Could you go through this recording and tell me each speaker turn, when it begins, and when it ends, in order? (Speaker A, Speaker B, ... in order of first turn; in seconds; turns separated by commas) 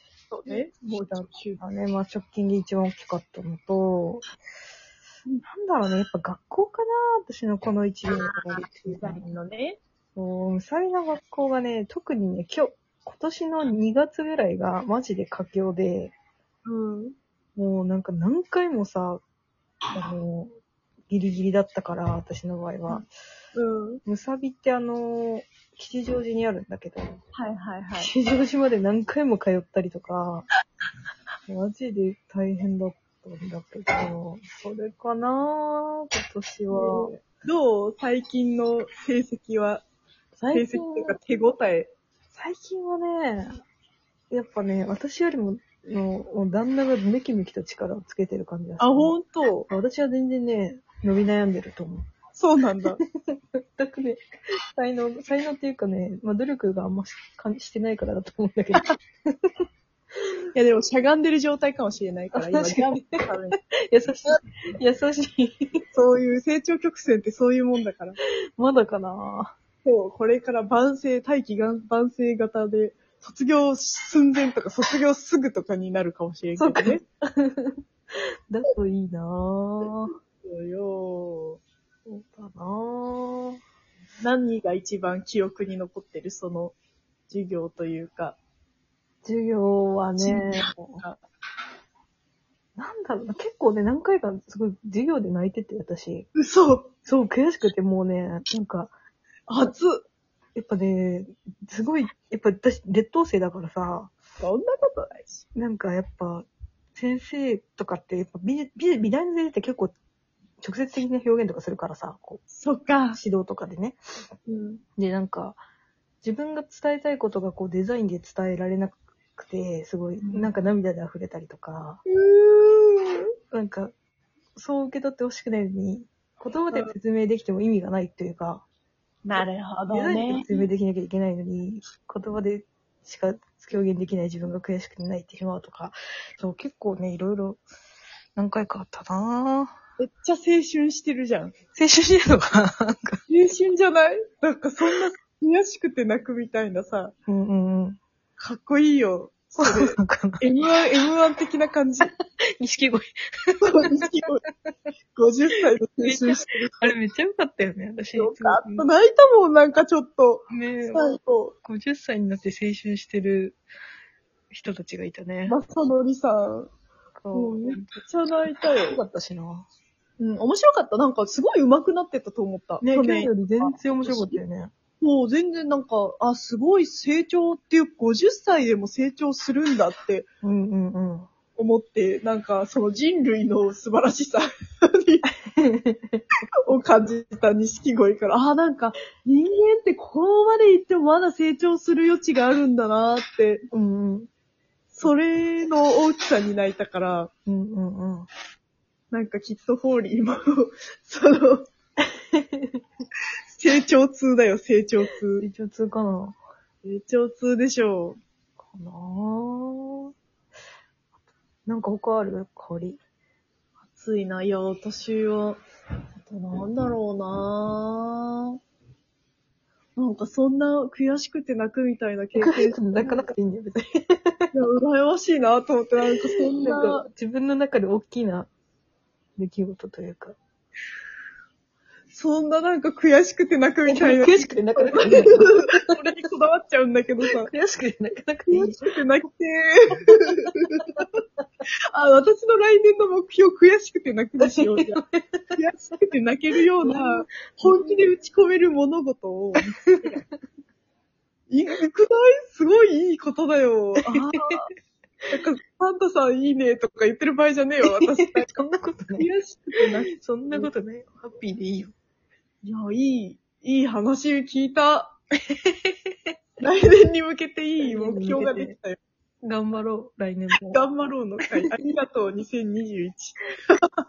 Speaker A: 0.3-1.6, Speaker B: 0.5-4.2, Speaker B: 5.5-9.4, Speaker A: 8.1-9.8, Speaker B: 10.2-16.1, Speaker A: 16.7-17.2, Speaker B: 17.6-19.2, Speaker B: 19.9-20.5, Speaker B: 21.1-23.1, Speaker A: 22.9-24.0, Speaker B: 24.1-27.2, Speaker A: 27.4-28.1, Speaker B: 28.0-30.5, Speaker B: 31.5-37.2, Speaker A: 36.7-39.8, Speaker B: 40.4-41.2, Speaker A: 40.5-41.9, Speaker B: 42.3-43.6, Speaker B: 44.3-49.2, Speaker A: 48.8-49.7, Speaker B: 49.7-52.0, Speaker A: 52.4-53.0, Speaker B: 53.3-54.2, Speaker B: 54.8-58.9, Speaker A: 60.5-63.6, Speaker B: 62.4-63.2, Speaker B: 63.9-65.8, Speaker A: 65.9-68.2, Speaker B: 68.6-69.5, Speaker A: 69.9-77.0, Speaker B: 76.6-80.1, Speaker A: 80.1-81.6, Speaker B: 82.1-83.6, Speaker A: 84.2-86.8, Speaker A: 87.3-88.4, Speaker B: 89.2-91.0, Speaker A: 90.2-91.2, Speaker B: 92.8-96.3, Speaker A: 96.4-96.9, Speaker B: 97.0-98.9, Speaker A: 99.5-100.1, Speaker B: 100.6-104.1, Speaker A: 104.4-105.5, Speaker B: 105.5-110.0, Speaker B: 110.6-112.4, Speaker A: 112.5-113.2, Speaker B: 113.1-114.0, Speaker A: 114.5-114.8, Speaker B: 115.0-115.6, Speaker B: 116.2-122.0, Speaker A: 120.2-120.5, Speaker A: 122.1-123.2, Speaker B: 123.5-123.9, Speaker B: 124.5-128.6, Speaker A: 129.2-130.7, Speaker B: 129.4-137.6, Speaker B: 138.4-139.7, Speaker A: 140.0-141.6, Speaker B: 141.8-143.2, Speaker A: 143.3-147.1, Speaker B: 147.3-148.0, Speaker A: 148.4-152.1, Speaker B: 149.6-150.4, Speaker B: 152.1-154.9, Speaker A: 153.6-154.4, Speaker A: 155.2-156.9, Speaker B: 156.0-158.9, Speaker A: 158.2-161.6, Speaker B: 160.5-163.6, Speaker B: 164.5-165.6, Speaker A: 165.5-166.7, Speaker B: 167.2-168.0, Speaker A: 167.3-169.0, Speaker B: 168.6-169.7, Speaker A: 170.2-174.4, Speaker B: 172.8-174.7, Speaker A: 175.0-180.3, Speaker B: 180.4-181.3, Speaker A: 181.6-185.3, Speaker B: 185.5-186.2, Speaker A: 186.7-193.7, Speaker B: 193.7-194.3, Speaker A: 194.9-197.3, Speaker B: 197.5-198.3, Speaker A: 199.1-201.7, Speaker B: 202.0-202.8, Speaker A: 203.6-205.5, Speaker B: 205.4-206.4, Speaker A: 206.8-208.2, Speaker B: 208.6-210.1, Speaker B: 211.7-213.0, Speaker A: 213.9-215.6, Speaker A: 216.2-218.6, Speaker A: 220.0-223.3, Speaker B: 222.4-224.5, Speaker A: 224.5-227.1, Speaker B: 226.3-228.5, Speaker B: 229.4-230.4, Speaker A: 232.1-237.5, Speaker B: 233.9-235.9, Speaker B: 237.3-238.9, Speaker A: 238.5-241.0, Speaker A: 241.9-245.0, Speaker B: 244.4-245.6, Speaker A: 245.6-250.2, Speaker B: 246.8-248.1, Speaker B: 249.9-250.3, Speaker A: 251.5-254.7, Speaker A: 255.3-258.6, Speaker B: 257.9-259.3, Speaker A: 259.2-260.7, Speaker B: 260.1-261.9, Speaker A: 262.6-265.2, Speaker B: 265.6-266.3, Speaker A: 266.6-269.0, Speaker B: 267.8-268.8, Speaker B: 269.4-270.9, Speaker A: 270.7-274.0, Speaker B: 271.5-271.7